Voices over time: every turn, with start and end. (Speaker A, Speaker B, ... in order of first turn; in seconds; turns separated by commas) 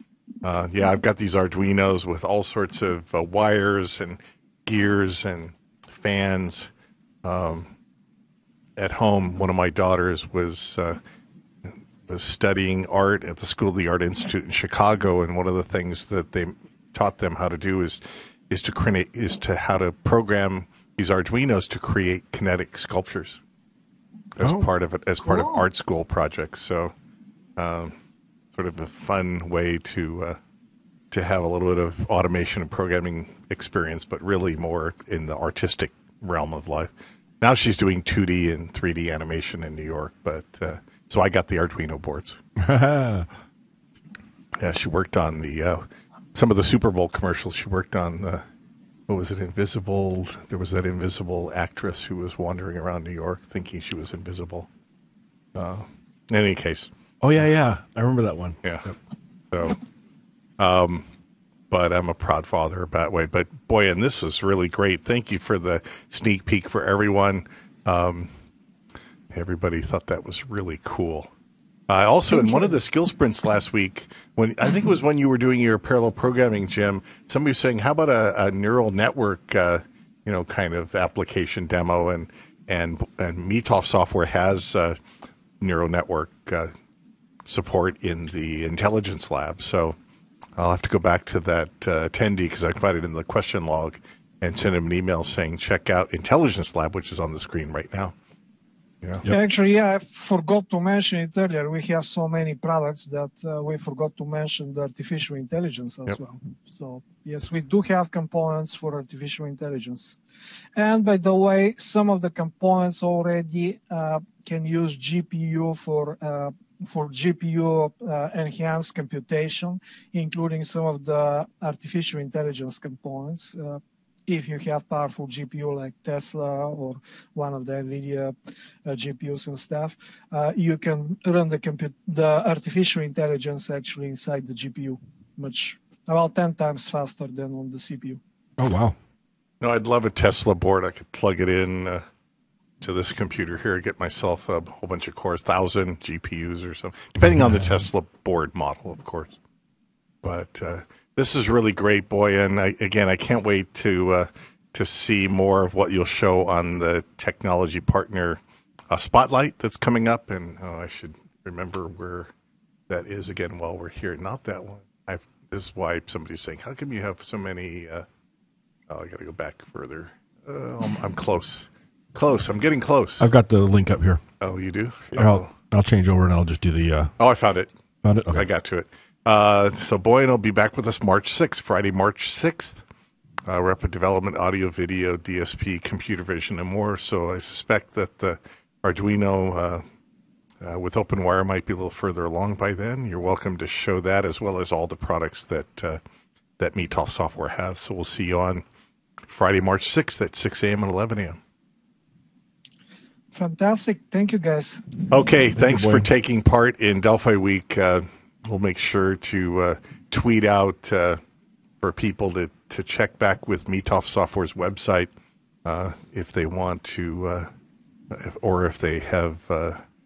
Speaker A: 0.4-6.7, Speaker A: 7.2-7.7, Speaker A: 8.8-11.0, Speaker A: 12.1-23.4, Speaker A: 24.4-26.9, Speaker B: 24.4-24.7, Speaker C: 25.3-25.6, Speaker A: 27.6-27.9, Speaker A: 28.5-30.4, Speaker A: 31.1-42.4, Speaker B: 42.6-43.3, Speaker A: 44.6-48.4, Speaker A: 49.1-54.7, Speaker A: 55.5-56.9, Speaker B: 57.2-58.9, Speaker A: 58.6-58.9, Speaker A: 59.5-59.8, Speaker A: 60.6-61.0, Speaker A: 61.7-68.3, Speaker A: 69.3-71.3, Speaker A: 71.9-85.0, Speaker C: 72.3-72.7, Speaker A: 85.6-86.7, Speaker A: 87.5-90.0, Speaker A: 90.6-98.1, Speaker C: 99.2-110.2, Speaker C: 110.8-128.3, Speaker C: 128.8-138.2, Speaker B: 138.6-138.9, Speaker A: 139.6-142.0, Speaker A: 142.8-149.3, Speaker A: 150.2-162.3, Speaker A: 162.9-168.1, Speaker A: 168.9-173.3, Speaker B: 173.2-174.2, Speaker A: 174.4-175.5, Speaker B: 175.1-177.1, Speaker A: 177.2-177.7, Speaker B: 178.0-178.4, Speaker A: 178.3-182.8, Speaker A: 183.5-189.8, Speaker A: 190.6-196.0, Speaker A: 196.6-198.6, Speaker A: 199.3-201.4, Speaker C: 203.3-204.8, Speaker A: 205.1-211.2, Speaker B: 205.6-206.0, Speaker A: 211.8-215.1, Speaker A: 215.6-217.5, Speaker A: 218.1-219.8